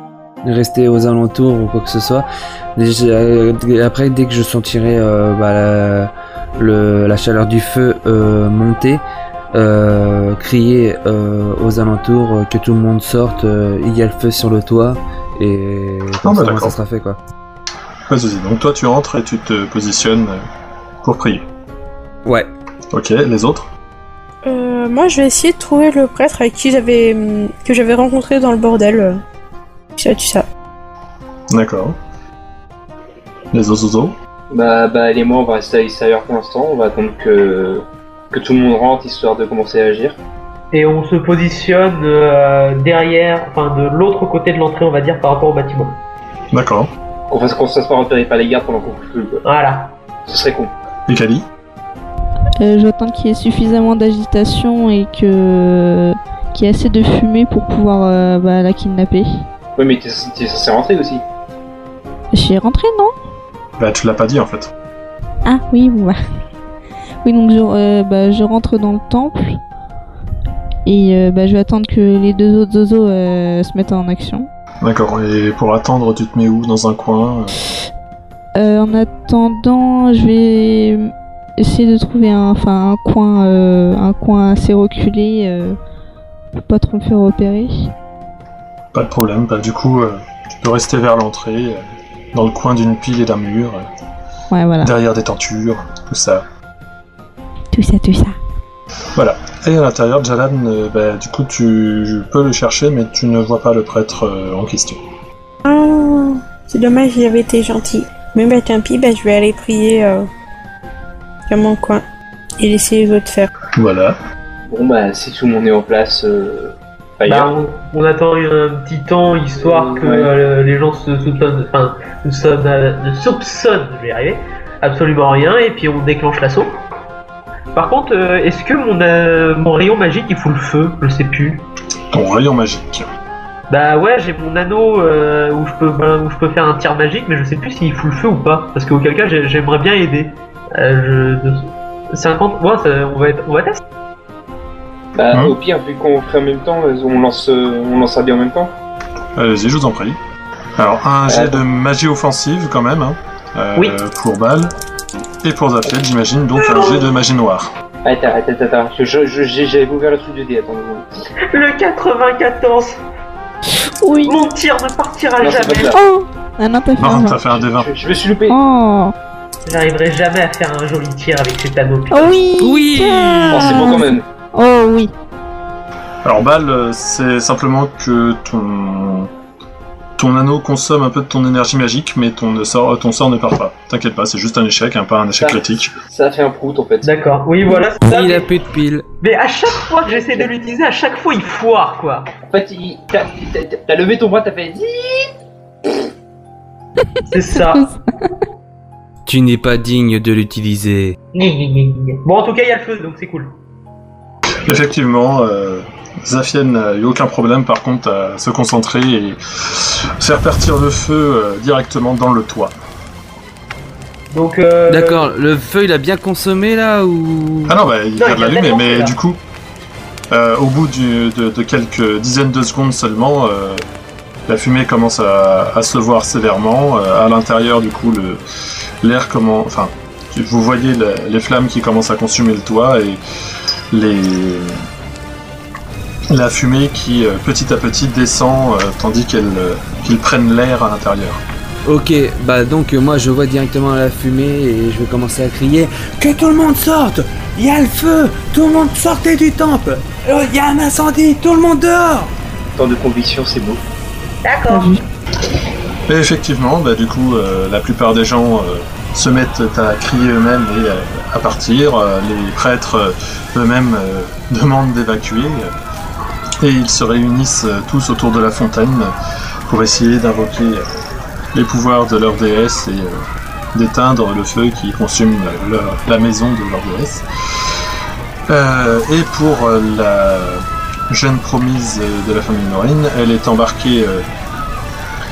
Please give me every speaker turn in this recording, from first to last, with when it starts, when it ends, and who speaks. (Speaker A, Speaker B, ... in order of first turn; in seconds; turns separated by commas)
Speaker A: 0.4-2.3, Speaker A: 2.8-17.2, Speaker B: 16.2-16.8, Speaker B: 18.1-20.4, Speaker B: 21.0-21.4, Speaker B: 22.9-23.7, Speaker C: 24.4-29.2, Speaker C: 30.0-30.5, Speaker B: 31.5-32.0, Speaker B: 33.5-34.1, Speaker D: 34.5-40.2, Speaker E: 40.7-46.0, Speaker B: 46.5-46.9, Speaker D: 47.3-49.4, Speaker E: 49.4-49.9, Speaker D: 50.3-50.7, Speaker B: 51.1-51.5, Speaker F: 52.6-59.5, Speaker D: 59.8-61.2, Speaker F: 62.3-63.1, Speaker B: 63.8-64.7, Speaker F: 65.5-66.2, Speaker F: 67.2-69.6, Speaker F: 70.8-74.5, Speaker B: 74.8-77.5, Speaker F: 78.5-85.8, Speaker F: 86.6-87.9, Speaker B: 88.9-91.8, Speaker B: 92.3-93.8, Speaker F: 94.5-94.9, Speaker B: 94.8-96.5, Speaker F: 97.7-98.3, Speaker B: 99.2-105.0, Speaker C: 105.6-110.3, Speaker C: 111.5-112.0, Speaker C: 112.6-113.5, Speaker B: 113.8-114.2, Speaker D: 114.7-117.5, Speaker E: 117.3-126.8, Speaker D: 119.6-120.3, Speaker E: 127.8-131.6, Speaker B: 132.1-133.1, Speaker E: 133.7-143.8, Speaker D: 145.2-148.7, Speaker B: 149.4-150.2, Speaker B: 150.8-154.7, Speaker D: 151.3-151.6, Speaker B: 155.4-157.7, Speaker E: 156.6-157.0, Speaker D: 158.1-161.1, Speaker E: 161.5-163.0, Speaker F: 164.0-164.4, Speaker E: 164.2-165.9, Speaker D: 165.4-166.0, Speaker F: 165.9-167.4, Speaker B: 167.0-167.9, Speaker D: 167.5-168.6, Speaker F: 168.5-169.2, Speaker E: 169.7-172.3, Speaker F: 172.1-175.1, Speaker A: 172.6-174.0, Speaker D: 173.5-174.2, Speaker B: 176.2-179.3, Speaker B: 180.2-186.0, Speaker D: 185.4-187.2, Speaker E: 187.0-188.5, Speaker A: 188.0-189.1, Speaker E: 189.2-192.3, Speaker D: 192.5-195.3, Speaker E: 197.3-197.9, Speaker F: 197.6-198.3, Speaker A: 199.3-201.2, Speaker E: 201.3-203.5, Speaker B: 204.7-212.7, Speaker E: 214.3-215.3, Speaker A: 214.9-217.8, Speaker B: 217.7-219.4, Speaker E: 218.2-219.2, Speaker B: 220.3-223.8, Speaker B: 224.5-228.4, Speaker B: 229.0-233.2, Speaker B: 233.9-234.8, Speaker B: 236.3-241.4, Speaker A: 241.8-252.3, Speaker D: 252.8-253.8, Speaker E: 254.4-254.9, Speaker F: 254.7-255.0, Speaker B: 256.1-265.7, Speaker B: 266.6-269.1, Speaker B: 269.7-270.9, Speaker B: 271.5-277.3, Speaker B: 278.5-284.3